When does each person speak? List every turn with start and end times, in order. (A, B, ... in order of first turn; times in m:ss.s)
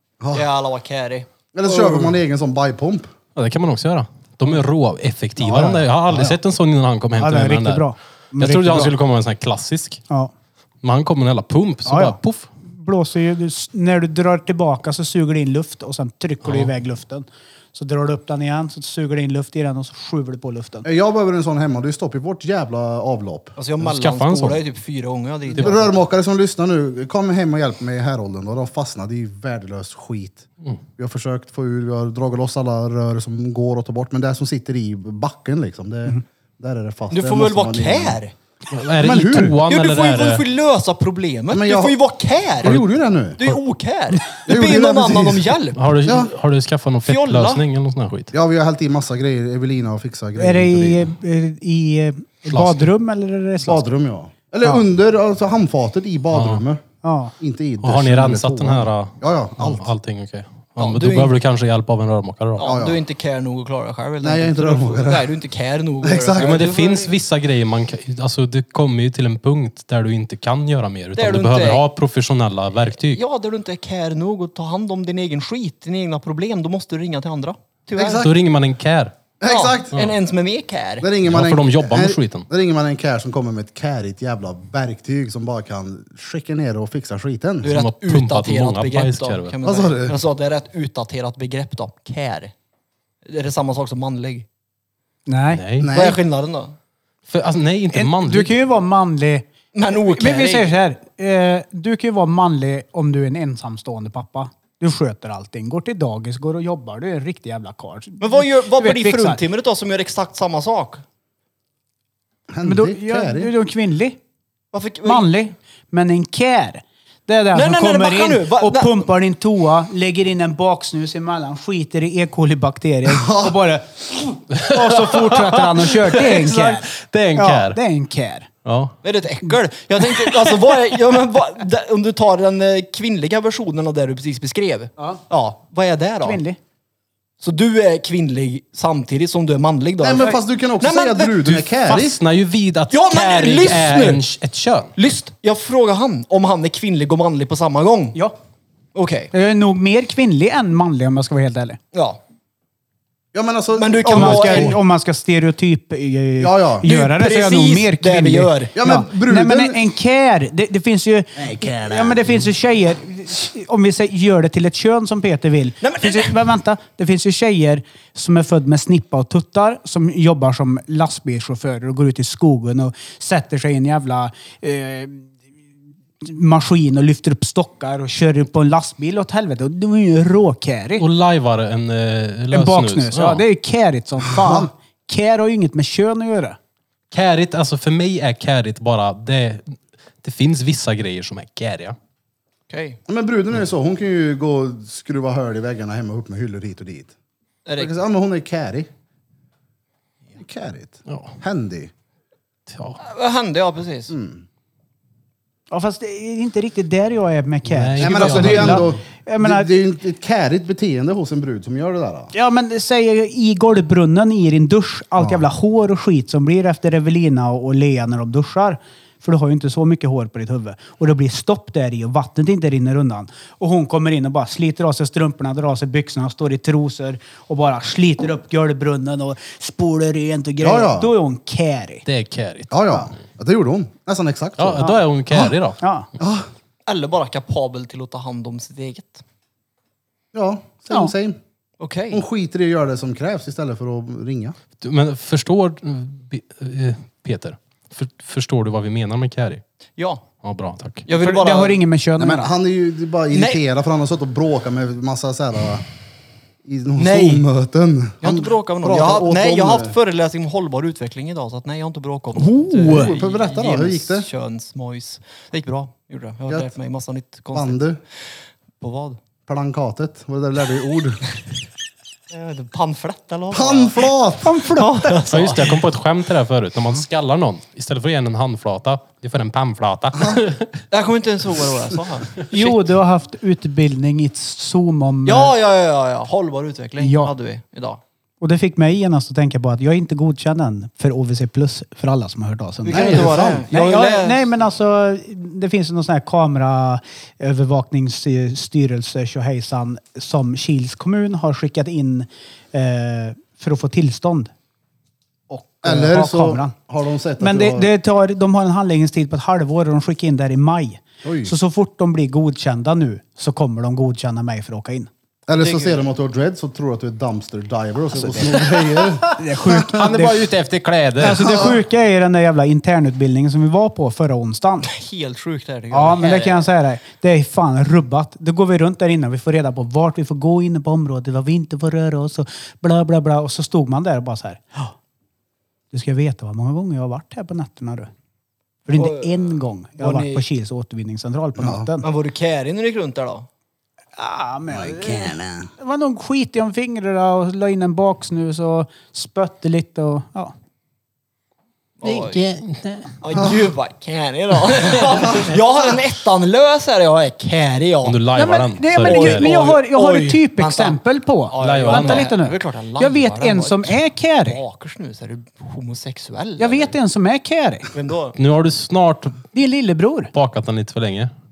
0:00.3-0:01.3 A
0:01.5-0:03.1 B
0:03.3-0:10.0 C
0:05.4-0:06.4 B
0:07.2-0:08.9 D
0:10.8-0:12.5 C
0:11.8-0:20.8 D
0:16.4-0:16.7 C
0:20.8-0:23.6 B
0:23.6-0:25.9 A
0:23.8-0:24.6 C
0:25.5-0:30.4 B
0:31.0-0:38.2 B
0:37.1-0:38.3 A
0:38.7-0:40.4 C
0:39.0-0:39.6 B
0:39.5-0:42.8 A
0:41.5-0:42.0 B
0:42.6-0:43.5 B
0:43.4-0:45.9 A
0:44.4-0:46.3 B
0:45.7-0:48.3 C
0:47.0-0:47.6 A
0:48.3-0:51.1 B
0:50.4-0:53.8 D
0:52.5-0:52.9 C
0:53.6-0:56.8 B
0:56.3-0:56.6 C
0:57.0-0:57.3 D
0:57.4-0:59.9 B
0:57.8-1:02.7 C
1:00.8-1:01.4 A
1:02.6-1:07.1 A
1:02.6-1:03.0 B
1:04.2-1:05.3 B
1:06.0-1:06.6 B
1:06.4-1:13.2 C
1:11.1-1:11.8 A
1:12.9-1:18.3 A
1:18.0-1:18.3 B
1:18.1-1:19.2 C
1:19.4-1:19.9 B
1:19.4-1:21.1 A
1:21.0-1:27.7 B
1:21.2-1:22.4 C
1:27.6-1:32.5 A
1:27.6-1:29.6 C
1:29.6-1:30.2 B
1:33.2-1:34.4 A
1:35.3-1:35.6 D
1:35.5-1:35.9 C
1:35.8-1:36.2 B
1:35.8-1:36.7 A
1:37.3-1:38.6 C
1:37.9-1:39.5 D
1:39.7-1:40.7 A
1:40.1-1:49.4 D
1:48.2-1:51.0 A
1:52.5-1:53.5 B
1:52.6-1:54.2 D
1:54.7-1:55.3 A
1:55.0-2:08.5 D
1:57.5-1:59.0 A
2:03.1-2:03.6 B
2:04.5-2:07.8 C
2:08.6-2:08.9 C
2:09.0-2:16.4 A
2:16.2-2:16.6 D
2:17.4-2:21.4 A
2:20.0-2:22.2 B
2:21.4-2:24.9 C
2:22.9-2:24.2 A
2:25.0-2:28.2 A
2:28.9-2:29.3 A
2:29.3-2:31.8 D
2:31.9-2:32.2 A
2:33.3-2:34.8 B
2:33.7-2:34.8 A
2:34.0-2:55.3 D
2:36.4-2:36.9 B
2:36.8-2:38.8 A
2:38.7-2:39.8 B
2:41.4-2:42.4 B
2:45.8-2:46.4 A
2:56.2-3:01.0 D
3:01.0-3:03.4 C
3:02.5-3:06.6 D
3:04.3-3:04.7 B
3:07.1-3:12.0 C
3:12.7-3:13.0 A
3:13.1-3:17.1 B
3:17.6-3:18.0 A
3:17.8-3:18.9 B
3:20.4-3:21.9 B
3:21.1-3:21.4 C
3:22.7-3:23.0 C
3:23.0-3:24.1 A
3:24.1-3:24.4 B
3:25.7-3:29.7 D
3:27.7-3:28.9 C
3:28.0-3:32.3 B
3:32.3-3:52.0 D
3:35.2-3:35.4 B
3:50.6-3:51.1 B
3:52.0-3:53.0 C
3:52.7-3:55.6 B
3:54.6-3:55.8 C
3:55.8-3:56.1 D
3:56.2-3:56.5 B
3:56.9-3:59.2 A
4:00.3-4:01.4 B
4:01.8-4:02.2 A
4:02.1-4:04.6 B
4:04.8-4:09.6 C
4:10.0-4:10.2 A
4:10.4-4:11.0 C
4:11.0-4:11.8 A
4:11.1-4:12.5 D
4:12.2-4:15.8 B
4:13.3-4:13.6 A
4:16.6-4:19.9 B
4:17.0-4:17.4 A
4:18.2-4:27.8 A
4:22.4-4:23.1 D
4:22.8-4:24.3 B
4:27.5-4:28.0 B
4:28.8-4:29.2 A
4:29.5-4:31.2 B
4:32.3-4:34.1 A
4:33.5-4:34.6 B
4:34.4-4:35.2 D
4:34.7-4:35.8 A
4:35.3-4:40.8 C
4:40.2-4:40.4 B
4:40.9-4:42.8 A
4:42.5-4:45.5 D
4:45.2-4:48.0 A
4:47.0-4:47.3 D
4:48.4-5:04.5 D
4:52.8-4:54.5 A
4:52.9-4:53.7 B
5:05.5-5:06.7 D
5:05.8-5:07.9 B
5:07.4-5:15.1 D
5:11.2-5:11.5 B
5:15.5-5:20.0 B
5:15.5-5:16.0 A
5:18.2-5:18.6 D
5:19.2-5:20.4 D
5:19.8-5:21.5 C
5:21.2-5:24.9 D
5:21.2-5:21.8 B
5:24.8-5:26.6 A
5:25.9-5:34.9 D
5:35.9-5:38.1 D
5:38.9-5:42.0 D
5:39.0-5:40.4 A
5:41.6-5:41.9 B
5:42.0-5:43.5 A
5:44.2-5:50.5 D
5:44.7-5:45.7 B
5:52.0-5:52.4 A
5:52.0-5:53.2 C
5:53.2-5:58.2 A
5:58.0-5:59.6 C
5:58.3-6:04.6 D
5:59.0-6:06.9 A
6:01.6-6:02.3 C
6:06.6-6:07.9 D
6:07.9-6:08.4 A
6:08.3-6:09.5 C
6:09.5-6:10.3 D
6:10.3-6:11.3 C